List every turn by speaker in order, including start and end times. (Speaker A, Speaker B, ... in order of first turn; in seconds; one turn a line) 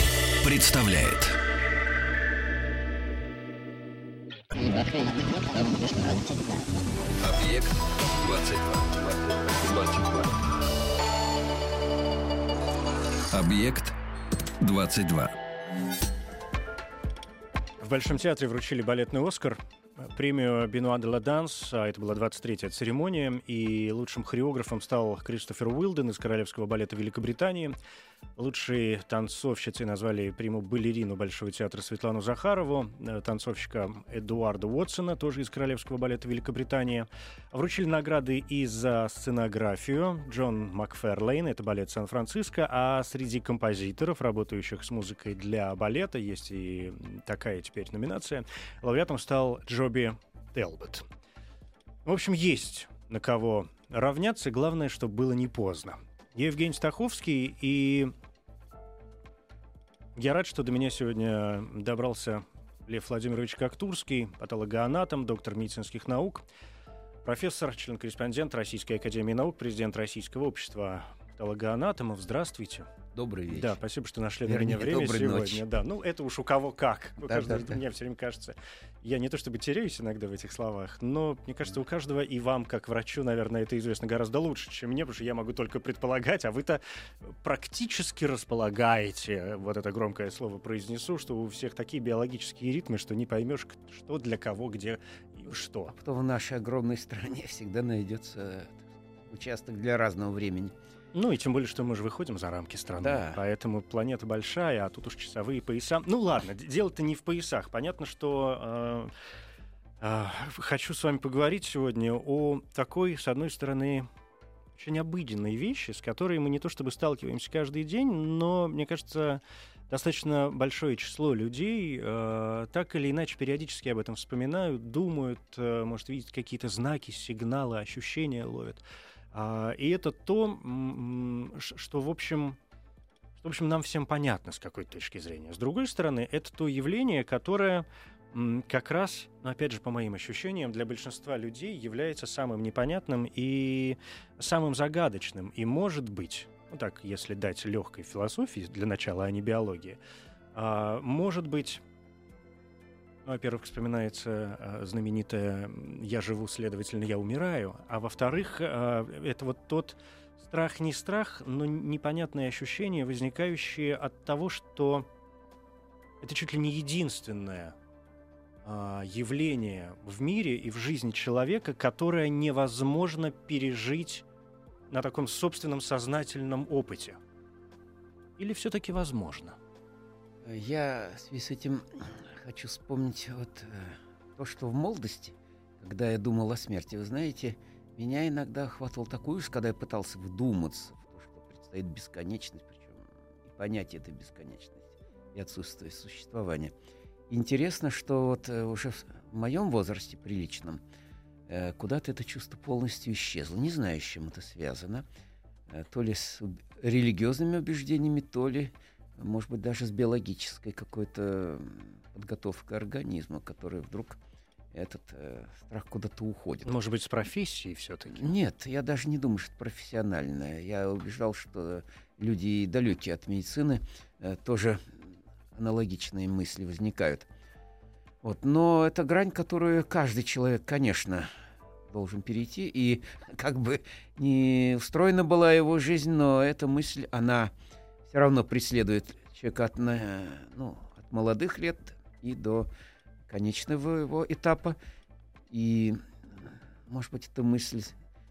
Speaker A: 0.4-1.4
Speaker A: 4.6-6.2
Speaker A: 7.2-10.5
Speaker A: 13.3-13.9
Speaker A: 14.6-15.4
Speaker B: 17.8-27.8
Speaker B: 28.4-51.1
Speaker B: 52.0-58.1
Speaker B: 60.2-66.5
Speaker B: 67.2-72.9
Speaker C: 73.1-73.8
Speaker B: 73.5-96.0
Speaker C: 74.5-75.6
Speaker C: 77.2-77.8
Speaker C: 95.9-100.8
Speaker B: 101.1-109.1
Speaker C: 103.0-103.4
Speaker B: 110.0-114.1
Speaker B: 114.8-128.8
Speaker B: 129.3-132.6
Speaker B: 133.4-150.0
Speaker B: 150.6-151.8
Speaker B: 153.3-165.1
Speaker B: 166.2-167.8
Speaker B: 168.7-174.2
Speaker B: 174.9-177.2
Speaker B: 178.4-179.6
Speaker C: 180.4-196.7
Speaker C: 197.3-200.8
Speaker C: 201.5-205.1
Speaker C: 205.7-214.2
Speaker C: 214.7-216.8
Speaker B: 216.7-218.3
Speaker C: 218.1-225.0
Speaker C: 225.6-227.3
Speaker C: 228.2-231.3
Speaker C: 231.9-237.5
Speaker C: 238.1-242.7
Speaker C: 243.3-244.8
Speaker C: 245.5-248.0